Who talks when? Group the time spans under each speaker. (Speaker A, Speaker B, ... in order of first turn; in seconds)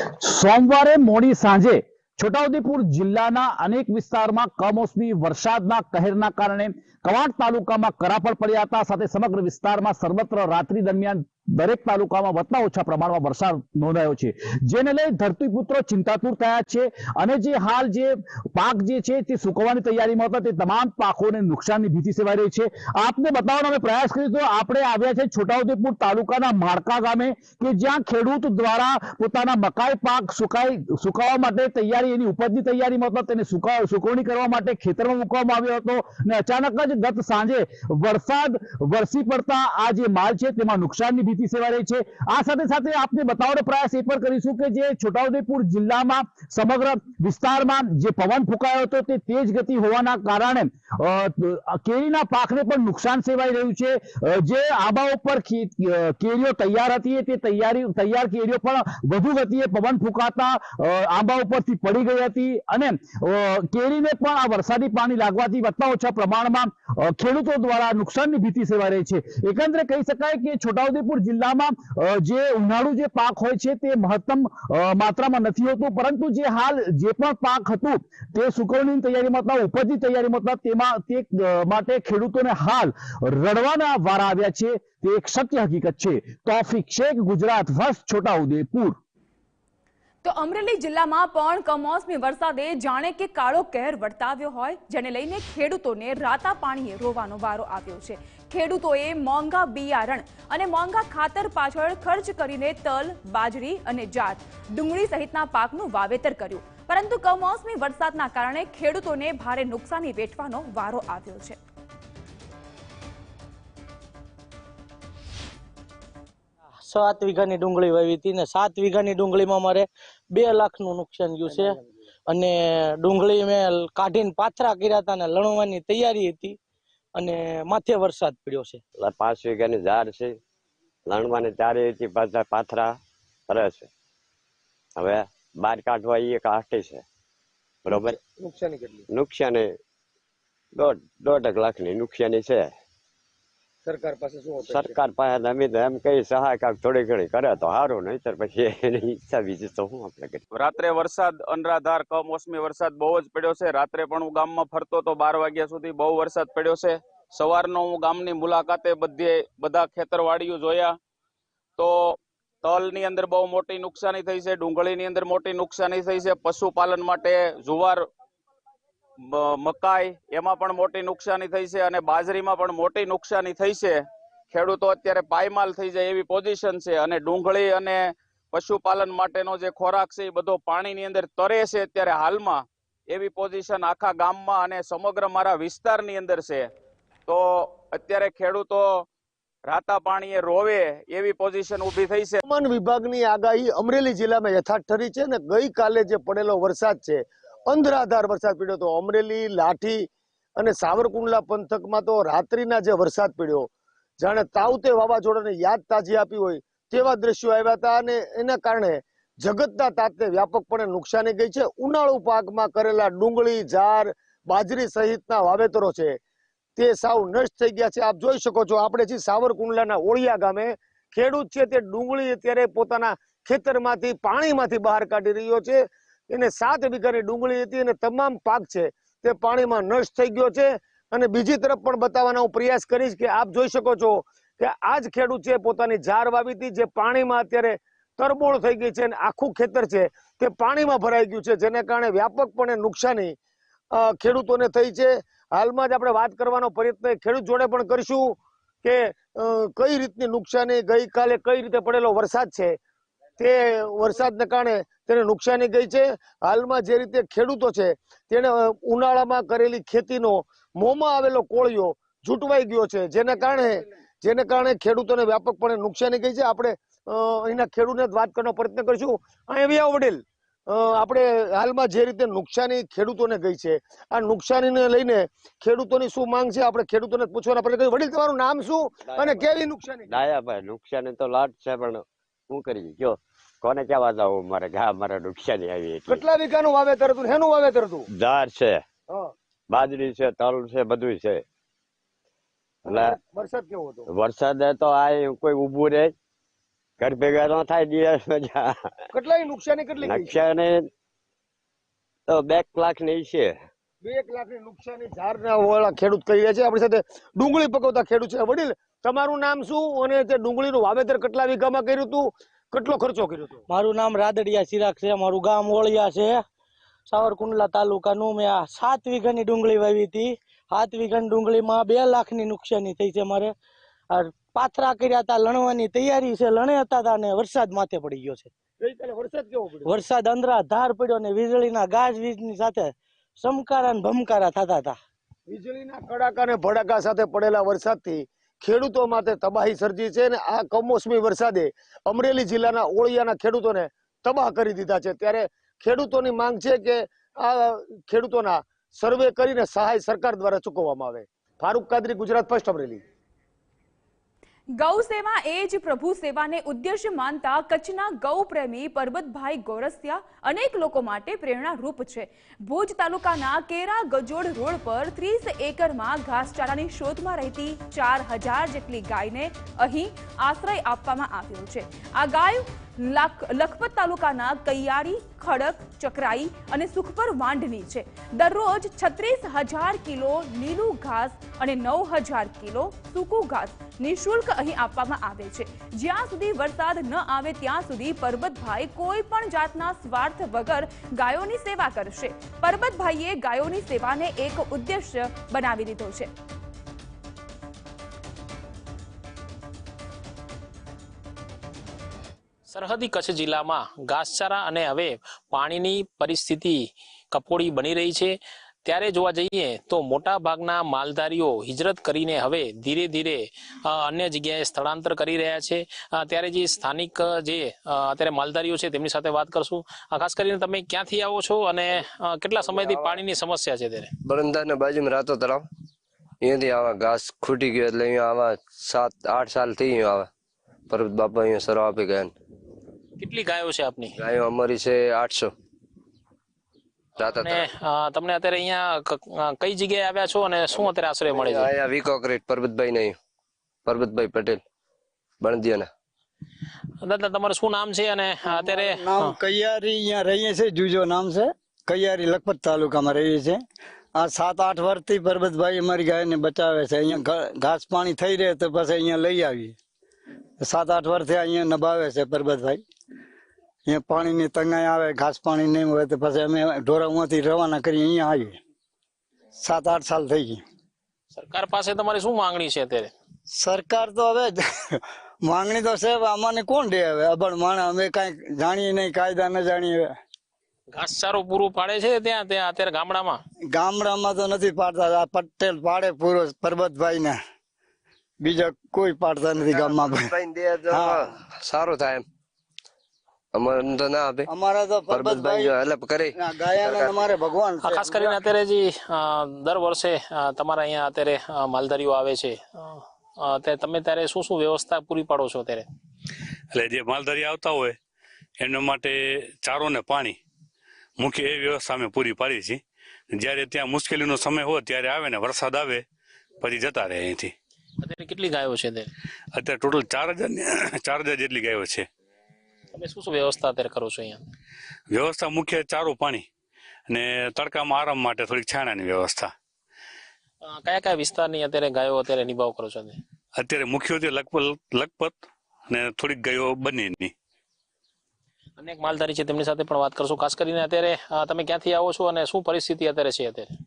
Speaker A: 0.2-89.0
Speaker B: 90.2-111.6, 354.8-396.3
Speaker C: 116.8-121.8, 122.3-126.6, 127.2-128.8, 313.7-316.4, 317.1-323.5, 324.1-328.5, 329.9-335.0
Speaker D: 129.0-130.3, 131.1-133.0, 133.5-133.9, 135.0-137.0, 137.9-138.2, 139.1-139.7, 140.8-142.7, 144.7-150.4, 279.1-279.5, 280.1-286.3, 288.1-288.8, 289.7-291.4, 292.9-293.2, 294.1-296.1, 297.0-298.9, 300.0-300.9, 302.3-303.6
Speaker E: 138.0-139.1, 143.9-145.0, 192.4-203.7, 204.2-216.2, 216.8-243.4, 243.9-252.8, 253.4-280.1, 286.1-288.1, 292.9-294.1, 299.1-300.4, 304.0-313.6, 328.8-329.9, 335.5-353.0
Speaker F: 150.5-161.0, 161.8-168.1, 169.2-186.7, 187.3-189.1, 189.7-192.4
Speaker G: 402.7-408.3, 408.9-424.1, 433.2-434.1, 437.2-441.7, 447.0-449.4, 471.4-473.1, 480.9-483.4, 497.8-505.9, 518.0-519.1, 522.9-524.5, 530.6-533.2, 538.8-543.7
Speaker H: 422.7-423.1, 424.2-425.6, 426.4-430.3, 430.9-432.3, 434.2-435.5, 437.2-437.6, 440.8-443.2, 443.9-444.6, 445.4-445.9, 489.6-492.2, 493.6-494.5, 495.1-497.2
Speaker I: 448.5-453.6, 454.2-459.8, 460.6-462.8, 463.9-468.6, 469.6-470.6, 473.5-480.1, 483.7-487.4, 488.4-490.3, 490.9-491.2, 494.5-495.8, 496.4-498.4
Speaker J: 506.7-508.0, 508.6-510.4, 511.2-512.8, 513.3-516.0, 516.6-517.5, 519.5-522.1, 525.1-526.5, 527.1-529.5, 533.6-535.4, 535.9-537.3